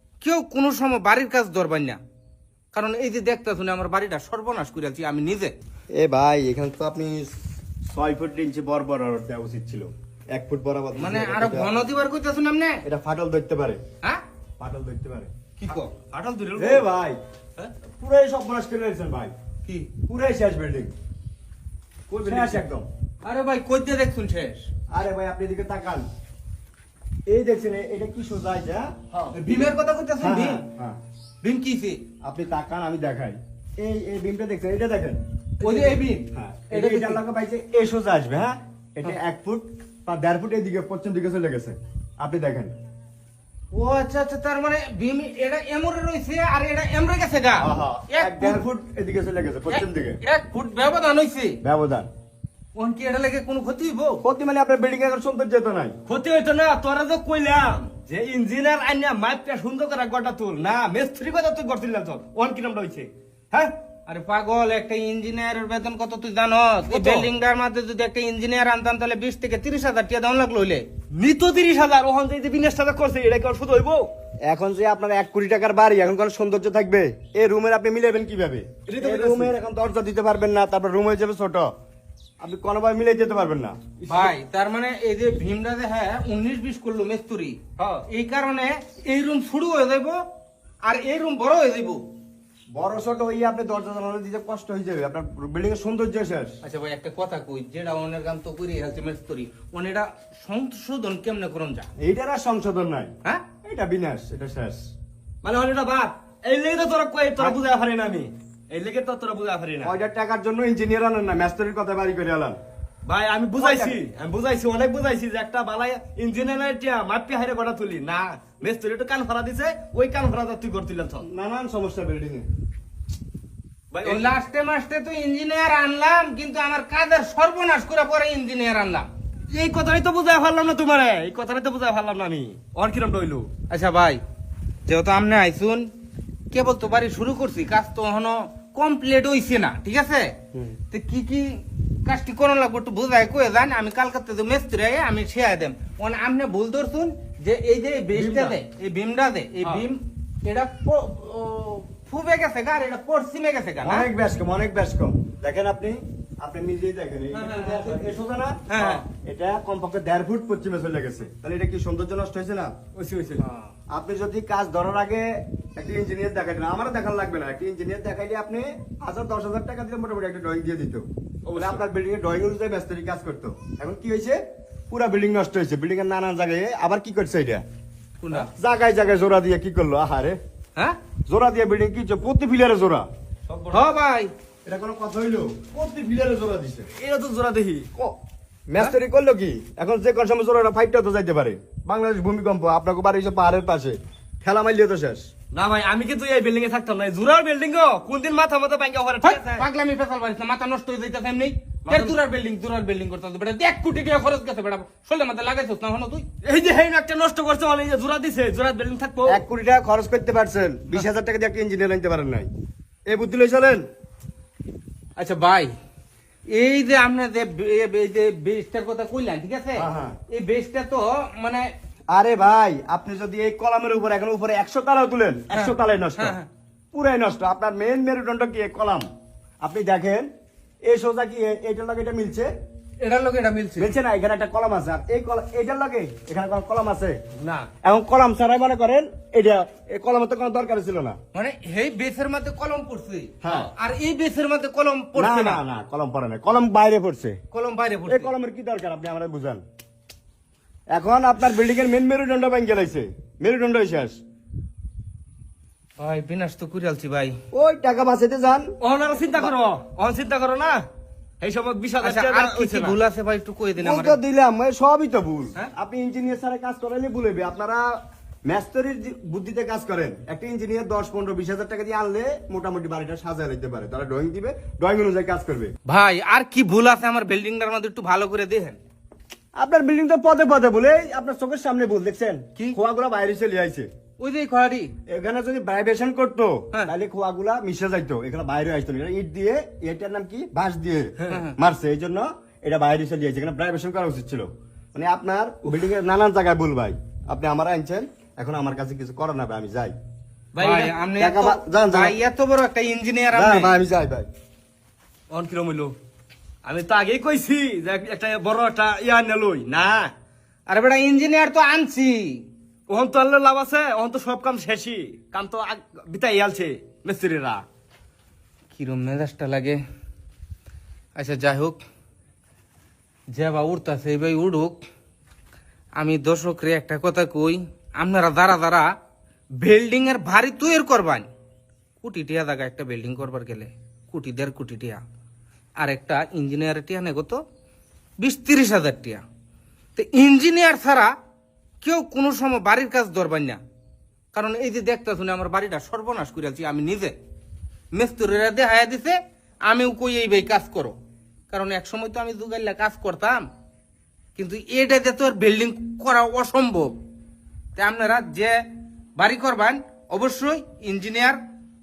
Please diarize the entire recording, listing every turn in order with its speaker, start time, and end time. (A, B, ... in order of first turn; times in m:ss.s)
0:00.2-0:02.0 A
0:02.7-0:05.5 A
0:05.9-0:11.7 B
0:11.0-0:12.8 A
0:12.8-0:13.8 B
0:14.6-0:15.3 B
0:15.6-0:15.9 A
0:15.7-0:16.8 C
0:16.6-0:17.2 B
0:18.0-0:19.3 B
0:19.6-0:19.9 A
0:20.0-0:20.9 B
0:22.1-0:22.6 C
0:22.2-0:22.9 B
0:23.2-0:24.7 A
0:24.9-0:26.1 B
0:27.3-0:29.0 B
0:29.3-0:30.6 A
0:30.2-0:31.0 B
0:31.4-0:32.0 A
0:32.2-0:35.2 B
0:35.6-0:37.2 A
0:35.6-0:36.0 C
0:36.3-0:42.7 B
0:43.7-0:48.6 A
0:47.6-0:50.2 B
0:49.7-0:51.6 A
0:51.6-0:52.1 B
0:52.8-0:54.2 A
0:54.2-0:56.0 B
0:56.1-1:03.7 C
1:04.1-1:10.8 A
1:06.9-1:07.3 C
1:11.1-1:14.1 C
1:14.5-1:21.7 B
1:18.9-1:19.6 C
1:22.4-1:23.8 B
1:24.0-1:24.3 C
1:24.1-1:30.2 A
1:27.8-1:28.1 C
1:30.8-1:32.0 A
1:32.7-1:36.6 B
1:36.6-1:41.9 A
1:42.0-1:43.1 B
1:43.6-1:44.9 B
1:45.4-1:49.9 C
1:49.8-1:52.6 B
1:53.1-2:01.3 C
1:53.6-1:54.0 B
2:01.2-2:02.5 B
2:03.9-2:04.4 C
2:04.0-2:09.1 A
2:09.5-2:13.5 C
2:13.7-2:14.2 A
2:14.9-2:15.9 A
2:16.5-2:20.4 A
2:20.9-2:34.1 A
2:28.2-2:28.6 C
2:33.8-2:42.7 B
2:37.3-2:38.2 C
2:38.7-2:39.0 C
2:43.0-2:43.5 C
2:43.4-2:43.6 A
2:43.9-2:57.6 B
2:51.5-2:51.9 C
2:58.2-2:58.5 A
2:58.4-3:00.4 B
3:01.3-3:03.1 B
3:03.5-3:03.9 C
3:03.7-3:04.3 A
3:04.6-3:06.9 B
3:06.9-3:07.9 C
3:08.7-3:15.3 B
3:15.5-3:19.7 C
3:19.2-3:26.3 A
3:21.9-3:22.2 C
3:26.4-3:29.4 C
3:29.3-3:32.5 B
3:33.1-3:33.9 B
3:35.2-3:35.7 A
3:36.5-3:41.7 A
3:39.8-3:40.2 B
3:42.1-3:46.4 B
3:45.5-3:46.5 A
3:46.9-3:49.1 B
3:49.6-3:50.3 B
3:50.8-3:52.5 B
3:53.0-3:53.9 A
3:53.8-3:57.2 B
3:57.4-3:57.7 C
3:57.8-4:01.2 B
4:01.3-4:05.6 A
4:03.4-4:03.7 B
4:05.2-4:07.4 B
4:07.5-4:08.3 A
4:08.1-4:09.6 B
4:10.9-4:14.2 B
4:16.0-4:17.4 A
4:17.5-4:18.8 B
4:18.8-4:20.8 C
4:21.4-4:23.0 C
4:22.0-4:24.2 A
4:23.8-4:27.8 B
4:28.5-4:35.7 B
4:35.9-4:38.8 A
4:39.6-4:43.9 B
4:44.2-4:44.9 A
4:45.1-5:00.0 B
4:51.2-4:51.5 C
4:51.3-4:51.6 A
5:00.5-5:01.0 C
5:00.6-5:03.7 A
5:01.2-5:02.2 B
5:03.3-5:04.3 B
5:05.3-5:06.0 C
5:06.6-5:10.1 C
5:10.7-5:12.4 A
5:12.9-5:17.6 C
5:18.7-5:19.8 A
5:21.2-5:21.8 A
5:23.3-5:24.8 A
5:26.0-5:28.9 A
5:29.6-5:31.3 A
5:32.0-5:35.0 A
5:35.8-5:37.4 A
5:38.2-5:39.2 A
5:40.0-5:41.1 A
5:41.8-5:43.6 A
5:44.3-5:47.2 A
5:47.9-5:51.0 A
5:51.5-5:53.5 A
5:54.4-5:57.0 A
5:57.8-5:58.6 A
5:59.2-6:01.4 A